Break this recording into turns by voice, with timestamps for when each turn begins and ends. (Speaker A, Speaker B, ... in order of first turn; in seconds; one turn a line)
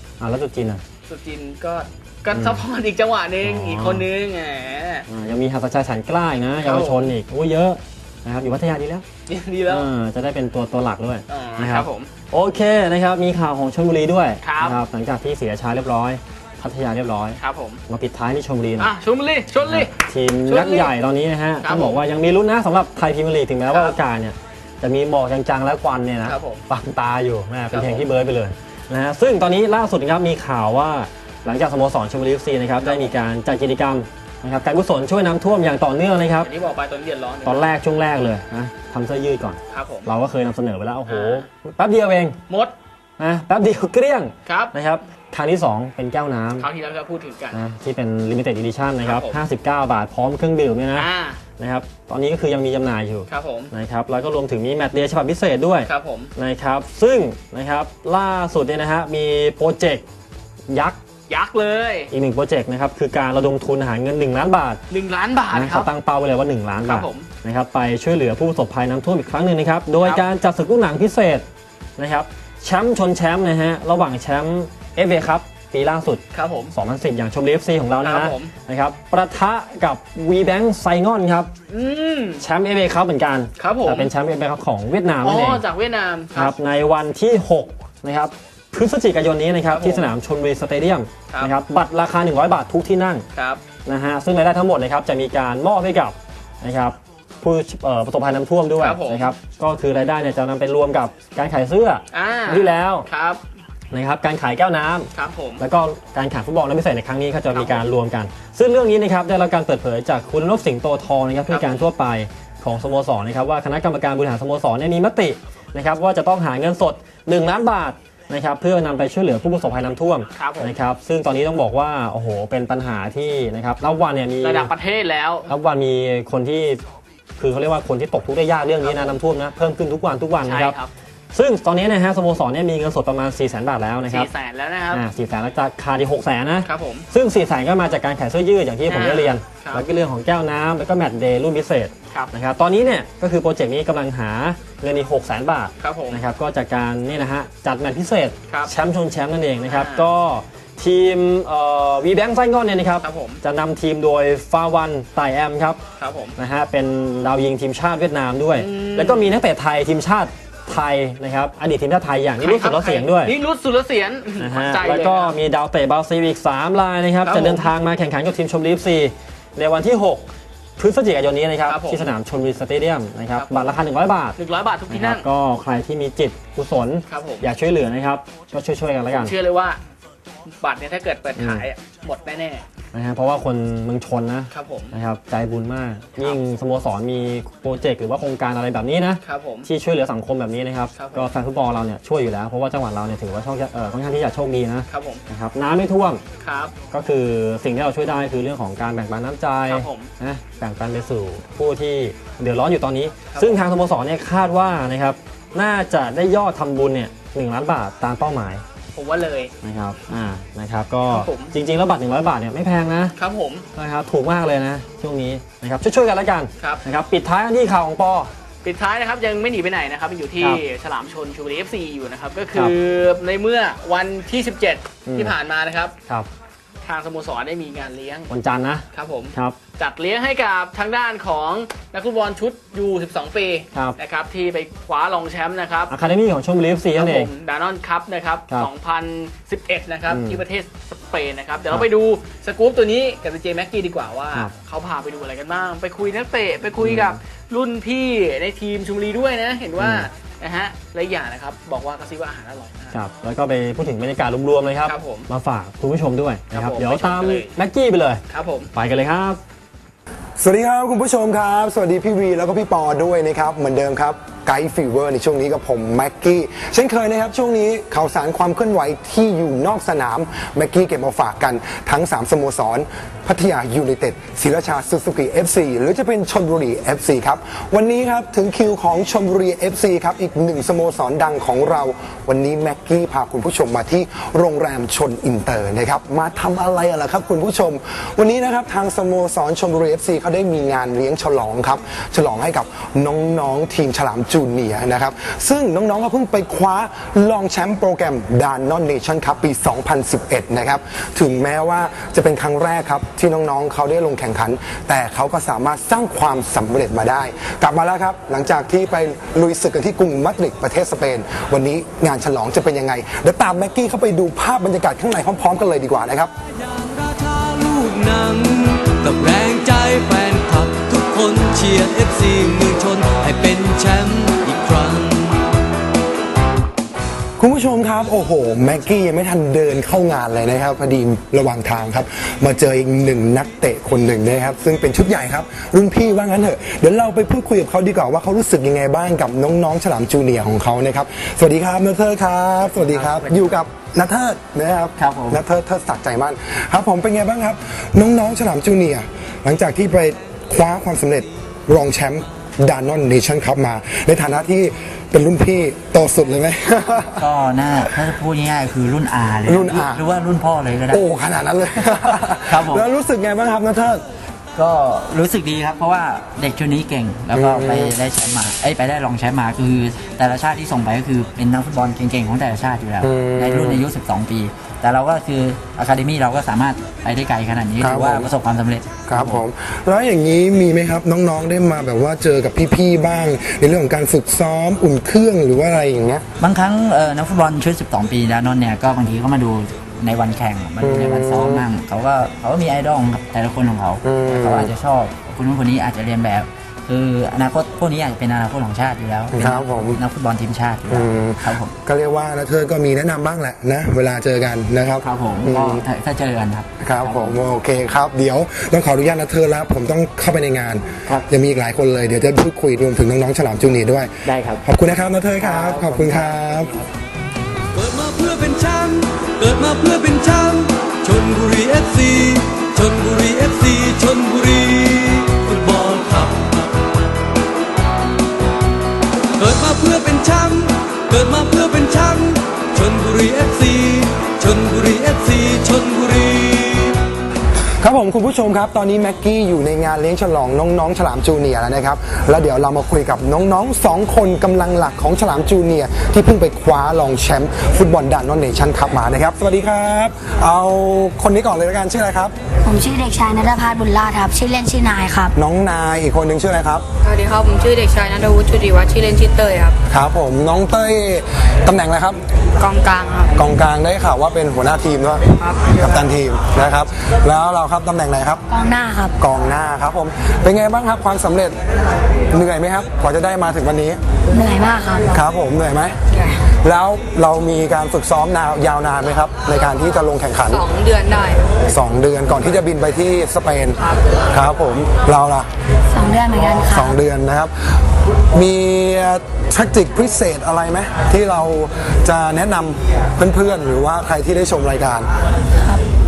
Speaker A: 0.2-0.8
Speaker B: 1.1-5.0
Speaker A: 2.3-2.6
Speaker A: 3.4-4.1
Speaker A: 5.1-9.0
Speaker B: 6.6-7.1
Speaker B: 9.3-9.9
Speaker A: 9.7-18.9
Speaker B: 11.3-12.1
Speaker B: 14.4-14.8
Speaker B: 17.4-17.8
Speaker B: 18.8-20.9
Speaker A: 19.6-36.5
Speaker B: 21.6-22.0
Speaker B: 23.7-24.0
Speaker B: 26.2-26.6
Speaker B: 27.7-28.1
Speaker B: 32.8-33.2
Speaker B: 36.4-37.7
Speaker A: 37.4-42.4
Speaker B: 39.7-40.1
Speaker B: 41.0-41.4
Speaker B: 42.5-42.7
Speaker A: 43.2-46.7
Speaker B: 44.4-44.7
Speaker B: 46.6-47.6
Speaker A: 47.5-60.0
Speaker B: 49.0-49.4
Speaker B: 50.9-51.4
Speaker B: 53.3-53.7
Speaker B: 55.9-56.3
Speaker A: 60.7-61.0
Speaker B: 61.3-62.1
Speaker A: 62.1-64.8
Speaker B: 64.9-65.9
Speaker A: 65.5-71.4
Speaker B: 66.8-67.3
Speaker A: 72.0-81.5
Speaker B: 76.3-76.7
Speaker B: 78.0-78.5
Speaker B: 81.7-82.4
Speaker A: 82.4-85.7
Speaker B: 83.6-84.1
Speaker B: 85.2-86.5
Speaker A: 86.3-93.2
Speaker B: 89.7-90.1
Speaker B: 93.3-93.6
Speaker A: 93.8-103.1
Speaker B: 98.8-99.3
Speaker B: 102.1-103.4
Speaker A: 103.9-124.7
Speaker B: 105.1-105.6
Speaker B: 107.5-107.9
Speaker B: 111.5-111.9
Speaker B: 120.3-120.8
Speaker B: 124.4-125.5
Speaker A: 125.5-126.8
Speaker A: 127.4-130.8
Speaker B: 128.8-129.2
Speaker B: 130.4-130.9
Speaker A: 131.3-134.3
Speaker B: 134.0-135.0
Speaker A: 134.9-155.8
Speaker B: 136.6-137.1
Speaker B: 138.9-139.9
Speaker B: 145.8-146.2
Speaker B: 148.5-148.7
Speaker B: 149.7-150.1
Speaker B: 153.0-153.4
Speaker B: 156.0-156.4
Speaker A: 156.4-163.4
Speaker B: 158.5-159.4
Speaker B: 162.4-165.4
Speaker A: 164.4-174.4
Speaker B: 167.2-167.7
Speaker B: 171.6-172.1
Speaker B: 173.3-173.8
Speaker B: 174.3-175.2
Speaker A: 174.9-179.3
Speaker B: 177.1-177.5
Speaker B: 179.1-179.8
Speaker B: 180.5-182.6
Speaker A: 181.4-181.7
Speaker A: 182.9-196.2
Speaker B: 184.5-184.9
Speaker B: 189.2-189.7
Speaker B: 190.9-191.3
Speaker B: 194.9-195.2
Speaker B: 196.4-196.7
Speaker A: 196.9-208.6
Speaker B: 199.7-200.1
Speaker B: 203.3-203.6
Speaker B: 208.9-209.5
Speaker A: 209.6-213.1
Speaker B: 211.1-211.6
Speaker B: 213.2-213.7
Speaker A: 213.7-218.3
Speaker B: 218.6-225.9
Speaker A: 225.1-225.3
Speaker B: 226.8-228.3
Speaker A: 228.3-229.6
Speaker B: 228.9-235.9
Speaker A: 235.9-237.3
Speaker B: 236.9-253.0
Speaker A: 240.1-240.4
Speaker A: 246.8-247.2
Speaker A: 249.8-250.1
Speaker A: 252.9-258.2
Speaker B: 254.8-255.3
Speaker B: 256.5-257.5
Speaker B: 258.3-258.7
Speaker A: 258.7-259.4
Speaker C: 260.4-316.3
Speaker D: 316.6-325.4
Speaker C: 327.4-357.2
Speaker E: 342.7-343.5
Speaker E: 345.0-345.4
Speaker E: 357.1-361.0
Speaker C: 359.4-360.0
Speaker C: 360.9-364.0
Speaker E: 362.0-362.9
Speaker E: 364.5-379.4
Speaker C: 367.3-367.9
Speaker C: 373.0-373.8
Speaker C: 377.8-378.3
Speaker C: 379.1-386.2
Speaker E: 386.4-401.7
Speaker C: 390.8-391.7
Speaker C: 394.0-394.7
Speaker C: 399.3-400.0
Speaker C: 400.9-405.8
Speaker E: 405.0-407.4
Speaker C: 406.8-416.7
Speaker E: 414.2-414.6
Speaker E: 415.4-416.9
Speaker D: 417.7-426.7
Speaker D: 429.4-437.0
Speaker C: 437.8-452.3
Speaker F: 452.6-455.3
Speaker C: 455.3-456.8
Speaker G: 457.0-459.8
Speaker C: 459.9-462.2
Speaker G: 462.6-463.4
Speaker C: 463.3-468.4
Speaker G: 465.4-465.8
Speaker F: 468.5-469.1
Speaker C: 469.2-471.6
Speaker C: 472.3-474.0
Speaker F: 474.3-475.1
Speaker C: 475.1-475.9
Speaker C: 476.5-480.6
Speaker G: 480.5-481.4
Speaker C: 481.7-485.5
Speaker F: 485.9-486.9
Speaker C: 486.7-495.1
Speaker F: 495.6-495.8